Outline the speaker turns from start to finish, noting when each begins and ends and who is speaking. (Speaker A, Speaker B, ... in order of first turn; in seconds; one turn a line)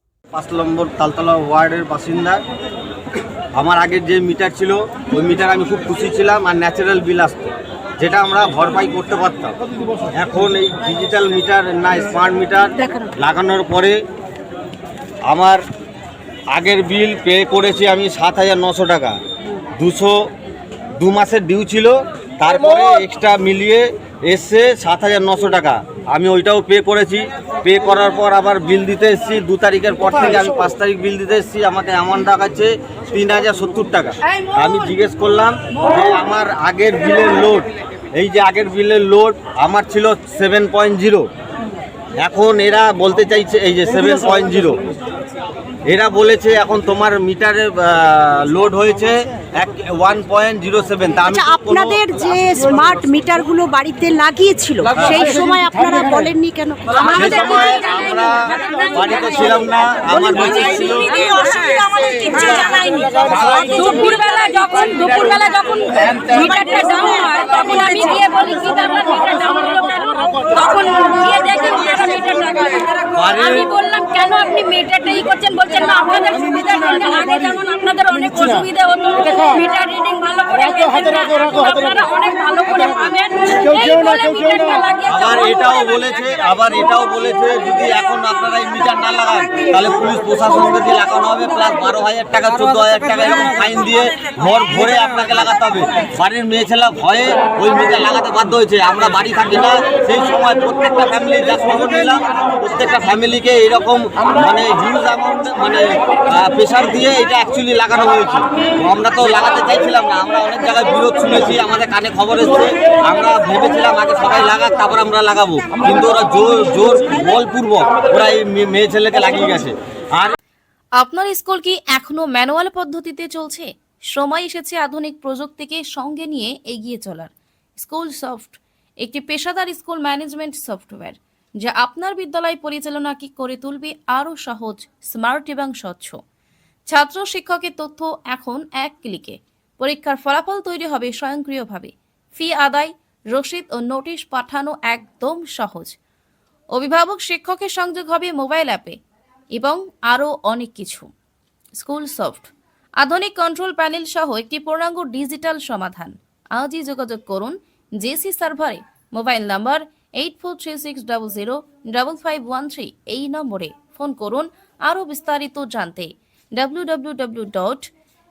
Speaker A: 0.3-2.4
Speaker A: 3.6-9.6
Speaker A: 10.1-14.0
Speaker A: 15.3-15.6
Speaker A: 16.5-19.2
Speaker A: 19.8-20.2
Speaker A: 21.0-41.3
Speaker A: 42.2-44.8
Speaker A: 45.9-52.0
Speaker B: 51.3-57.9
Speaker A: 55.0-55.3
Speaker A: 57.0-61.2
Speaker B: 61.0-64.8
Speaker C: 64.6-72.9
Speaker A: 73.2-73.7
Speaker C: 73.7-85.0
Speaker A: 85.0-120.4
Speaker D: 121.0-136.2
Speaker D: 136.9-146.0
Speaker D: 146.7-149.0
Speaker D: 149.5-151.1
Speaker D: 151.8-167.9